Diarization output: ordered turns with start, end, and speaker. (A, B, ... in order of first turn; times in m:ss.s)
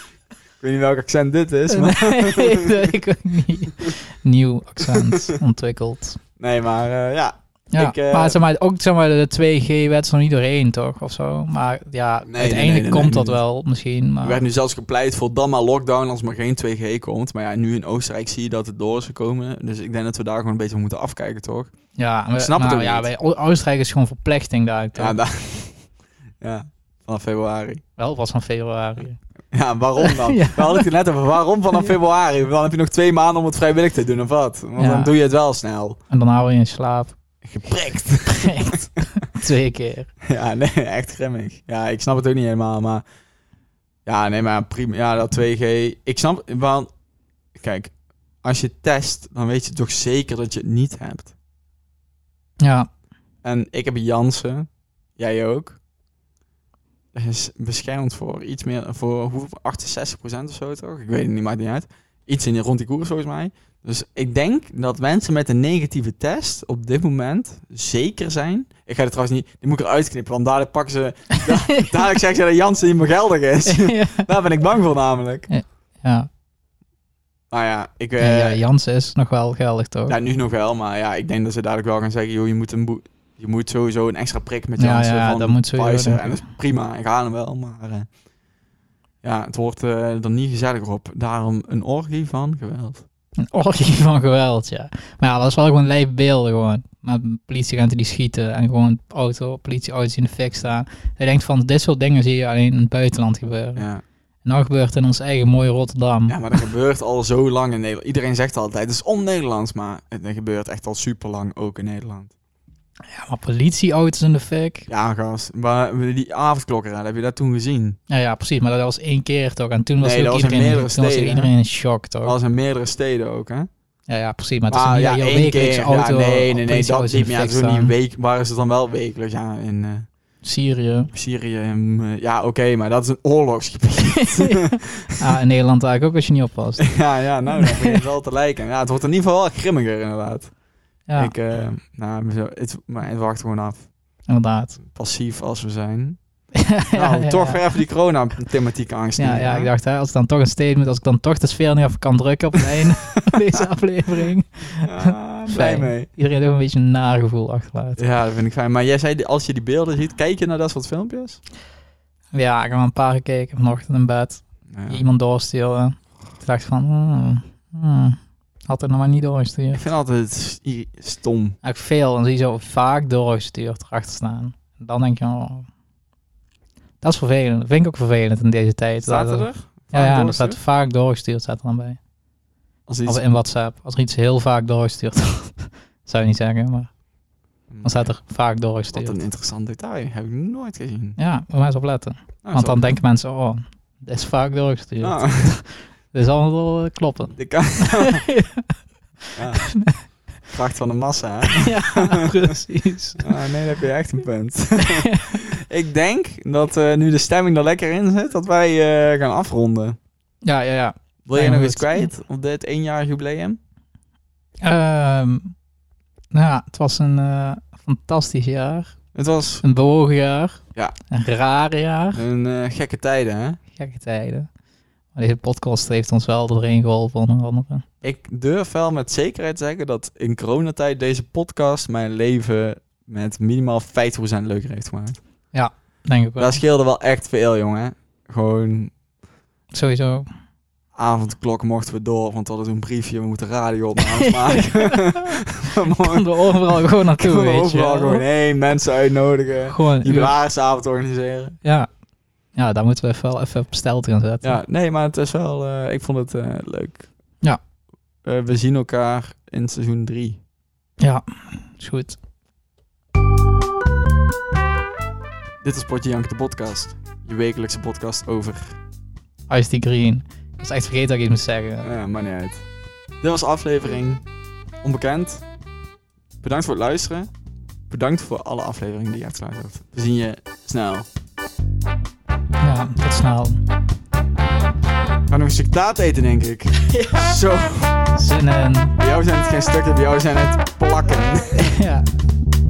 0:00.6-0:02.9 A
0:01.7-0:06.2 B
0:04.8-0:05.3 A
0:06.4-0:08.4 A
0:07.7-0:14.4 B
0:12.2-0:13.4 A
0:14.2-0:21.7 A
0:22.0-0:25.2 B
0:22.4-0:23.0 A
0:25.0-0:25.8 A
0:26.4-0:27.8 A
0:28.0-0:29.2 B
0:29.5-0:36.0 A
0:30.0-0:30.9 B
0:34.8-0:35.1 B
0:36.1-0:37.1 B
0:37.4-0:38.8 A
0:38.3-0:40.1 B
0:40.2-0:43.0 A
0:44.0-0:46.9 A
0:47.5-0:51.3 A
0:52.6-0:52.9 B
0:53.4-0:55.8 A
0:57.1-1:15.5 A
1:11.4-1:12.0 B
1:13.6-1:14.3 B
1:15.5-1:16.3 B
1:17.5-1:18.6 A
1:18.2-1:20.2 B
1:20.1-1:28.1 A
1:24.8-1:26.5 B
1:29.2-1:33.0 A
1:33.4-1:43.8 B
1:43.8-1:44.0 A
1:44.4-1:46.6 B
1:46.3-1:52.3 A
1:53.1-1:54.9 B
1:54.9-1:58.0 A
1:58.1-2:02.3 B
2:00.0-2:01.5 A
2:02.2-2:03.7 A
2:04.1-2:07.9 B
2:04.7-2:10.1 A
2:10.4-2:11.1 B
2:11.1-2:15.2 A
2:14.2-2:16.9 B
2:16.8-2:20.5 A
2:17.6-2:17.9 B
2:21.1-2:21.3 B
2:21.1-2:23.9 A
2:24.3-2:24.8 B
2:24.8-2:26.2 A
2:26.6-2:27.6 B
2:26.9-2:29.7 A
2:29.2-2:38.0 B
2:34.8-2:36.1 A
2:38.0-2:41.4 A
2:42.3-2:49.8 B
2:44.7-2:45.0 A
2:49.7-2:51.6 A
2:51.6-2:55.7 B
2:57.0-3:02.0 B
2:59.0-3:00.6 A
3:02.9-3:03.2 A
3:03.0-3:06.9 B
3:07.7-3:08.2 A
3:07.8-3:09.2 B
3:08.9-3:11.2 A
3:11.2-3:18.8 B
3:12.4-3:13.0 A
3:15.0-3:15.6 A
3:17.3-3:18.2 A
3:19.3-3:20.1 B
3:19.4-3:19.9 A
3:20.4-3:22.5 A
3:21.5-3:23.3 B
3:23.2-3:30.0 A
3:24.8-3:25.4 B
3:30.4-3:32.1 B
3:31.2-3:33.6 A
3:34.6-3:35.5 B
3:36.3-3:39.0 B
3:39.1-3:39.6 A
3:39.6-3:42.2 B
3:42.1-3:43.6 A
3:43.7-3:44.5 B
3:45.1-3:47.8 B
3:48.0-3:55.2 A
3:55.5-3:56.6 B
3:56.4-3:58.9 A
3:59.7-4:00.3 B
4:00.9-4:11.6 A
4:04.2-4:08.2 B
4:09.7-4:10.3 B
4:12.5-4:14.6 B
4:14.4-4:17.1 A
4:18.2-4:20.4 A
4:21.0-4:22.2 B
4:25.6-4:28.8 A
4:29.5-4:31.9 B
4:31.8-4:32.6 A
4:33.2-4:34.2 A
4:34.8-4:35.4 A
4:36.4-4:37.3 A
4:37.9-4:41.1 A
4:42.6-4:43.6 B
4:45.3-4:48.1 A
4:46.9-4:47.2 B
4:48.1-4:49.0 B
4:49.0-4:51.8 A
4:51.6-4:52.1 B